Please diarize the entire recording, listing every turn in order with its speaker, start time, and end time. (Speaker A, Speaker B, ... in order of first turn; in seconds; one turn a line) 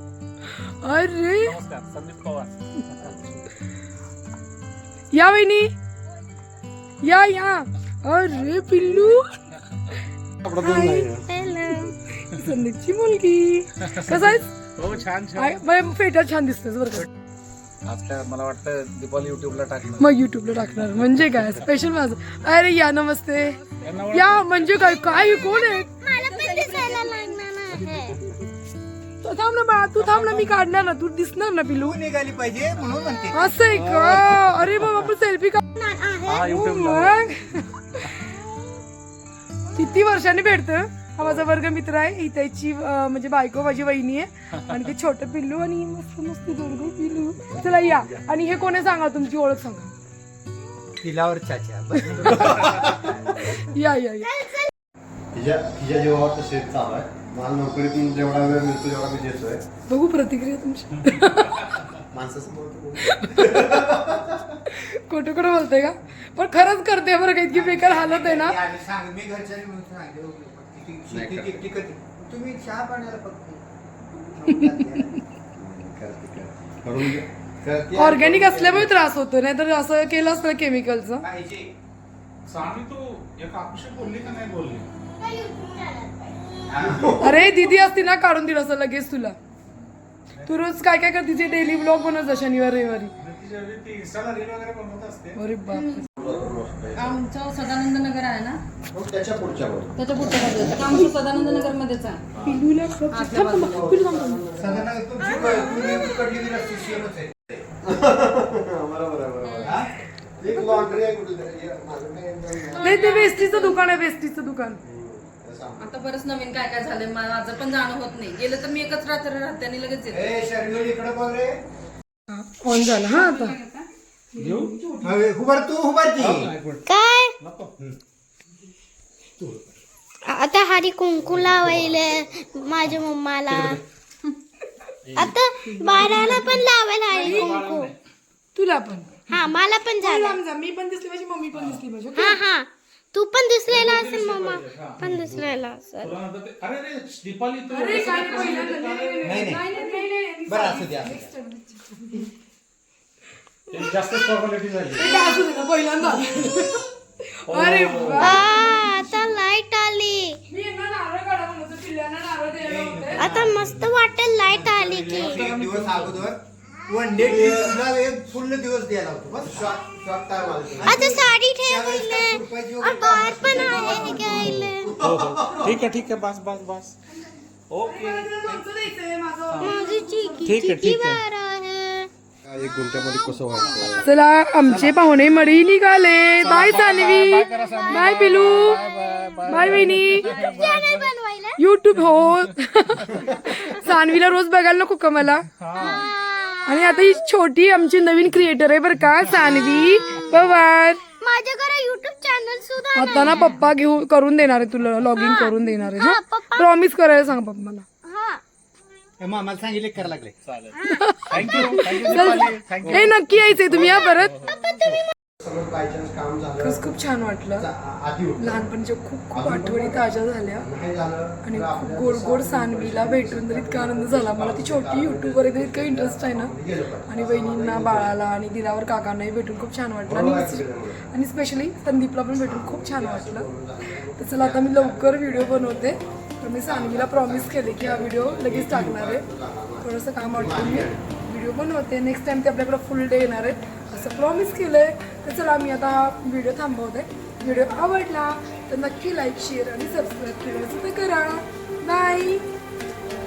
Speaker A: 0.5-1.6
Speaker B: 1.4-3.1
Speaker A: 5.1-5.7
Speaker A: 7.0-9.3
Speaker C: 10.4-11.3
Speaker D: 10.6-12.0
Speaker A: 12.2-14.5
Speaker B: 13.9-15.6
Speaker A: 15.3-17.1
Speaker B: 17.9-20.1
Speaker A: 20.0-25.9
Speaker B: 23.8-24.7
Speaker D: 24.9-28.2
Speaker E: 26.2-27.4
Speaker A: 29.2-32.0
Speaker F: 30.1-30.5
Speaker F: 31.7-34.7
Speaker A: 33.3-35.6
Speaker D: 35.8-36.5
Speaker B: 36.3-37.2
Speaker A: 36.4-38.1
Speaker A: 39.7-49.9
Speaker F: 51.0-53.3
Speaker A: 53.3-54.4
Speaker D: 54.2-54.7
Speaker C: 55.3-59.6
Speaker A: 59.9-61.8
Speaker C: 62.1-64.6
Speaker A: 63.0-63.6
Speaker A: 64.7-68.6
Speaker F: 67.5-73.6
Speaker C: 71.1-71.7
Speaker F: 74.3-75.2
Speaker A: 74.5-75.1
Speaker C: 75.5-78.9
Speaker A: 78.0-81.2
Speaker F: 81.2-81.7
Speaker B: 82.5-84.9
Speaker D: 85.2-86.6
Speaker F: 86.7-87.0
Speaker B: 86.8-87.2
Speaker C: 86.8-87.3
Speaker A: 87.2-89.4
Speaker A: 90.5-93.1
Speaker B: 93.2-95.4
Speaker A: 95.3-96.1
Speaker E: 95.7-96.3
Speaker C: 96.2-97.2
Speaker E: 97.0-98.6
Speaker C: 98.9-101.7
Speaker E: 100.0-102.2
Speaker C: 102.3-102.6
Speaker A: 102.4-104.5
Speaker E: 103.1-104.0
Speaker C: 103.6-104.9
Speaker F: 104.6-107.7
Speaker D: 105.2-106.2
Speaker C: 107.8-109.9
Speaker E: 109.4-109.8
Speaker F: 109.6-109.9
Speaker C: 110.4-113.0
Speaker A: 110.5-110.9
Speaker E: 112.7-113.9
Speaker A: 112.8-114.8
Speaker C: 114.8-116.0
Speaker E: 115.8-120.3
Speaker F: 120.1-121.6
Speaker A: 122.3-123.6
Speaker E: 123.0-123.9
Speaker A: 124.3-124.8
Speaker B: 124.4-124.8
Speaker E: 124.6-125.2
Speaker F: 125.0-126.5
Speaker B: 126.2-126.8
Speaker D: 126.9-127.3
Speaker B: 127.4-127.7
Speaker D: 130.2-133.8
Speaker B: 131.3-131.9
Speaker B: 135.1-138.0
Speaker D: 135.2-137.9
Speaker A: 137.2-137.6
Speaker A: 138.5-139.2
Speaker D: 139.3-140.4
Speaker A: 140.0-142.4
Speaker B: 141.5-141.8
Speaker D: 142.2-146.1
Speaker B: 143.7-145.5
Speaker B: 146.0-149.4
Speaker A: 147.7-152.3
Speaker E: 148.2-148.7
Speaker F: 149.2-149.6
Speaker E: 149.4-150.1
Speaker F: 150.5-151.3
Speaker B: 153.7-155.3
Speaker A: 154.9-159.0
Speaker B: 157.5-158.7
Speaker D: 158.1-160.4
Speaker A: 160.5-163.3
Speaker F: 162.6-163.9
Speaker D: 163.1-165.5
Speaker F: 164.5-169.7
Speaker B: 165.2-166.3
Speaker C: 167.2-167.8
Speaker C: 169.5-171.2
Speaker F: 170.8-175.8
Speaker D: 170.8-174.9
Speaker A: 173.5-174.6
Speaker B: 174.4-176.9
Speaker B: 177.7-178.7
Speaker A: 177.8-180.6
Speaker D: 179.6-182.1
Speaker B: 180.4-181.2
Speaker C: 182.4-184.1
Speaker D: 182.8-184.0
Speaker A: 184.0-188.9
Speaker C: 184.7-185.0
Speaker B: 186.4-191.1
Speaker D: 186.4-187.1
Speaker A: 189.4-190.4
Speaker D: 190.2-191.6
Speaker A: 191.6-195.5
Speaker B: 195.6-196.1
Speaker D: 196.1-196.9
Speaker A: 196.7-201.0
Speaker D: 201.2-203.5
Speaker A: 202.9-207.9
Speaker B: 203.2-203.6
Speaker D: 205.1-206.7
Speaker D: 208.0-208.4
Speaker F: 209.2-210.4
Speaker B: 210.4-214.5
Speaker A: 210.8-214.4
Speaker D: 214.5-215.0
Speaker C: 215.4-216.9
Speaker A: 216.6-217.7
Speaker C: 217.6-218.7
Speaker A: 218.4-220.7
Speaker C: 219.3-228.2
Speaker A: 221.4-226.5
Speaker A: 227.1-233.5
Speaker C: 230.1-231.1
Speaker C: 232.3-241.0
Speaker A: 234.1-239.2
Speaker A: 239.8-252.4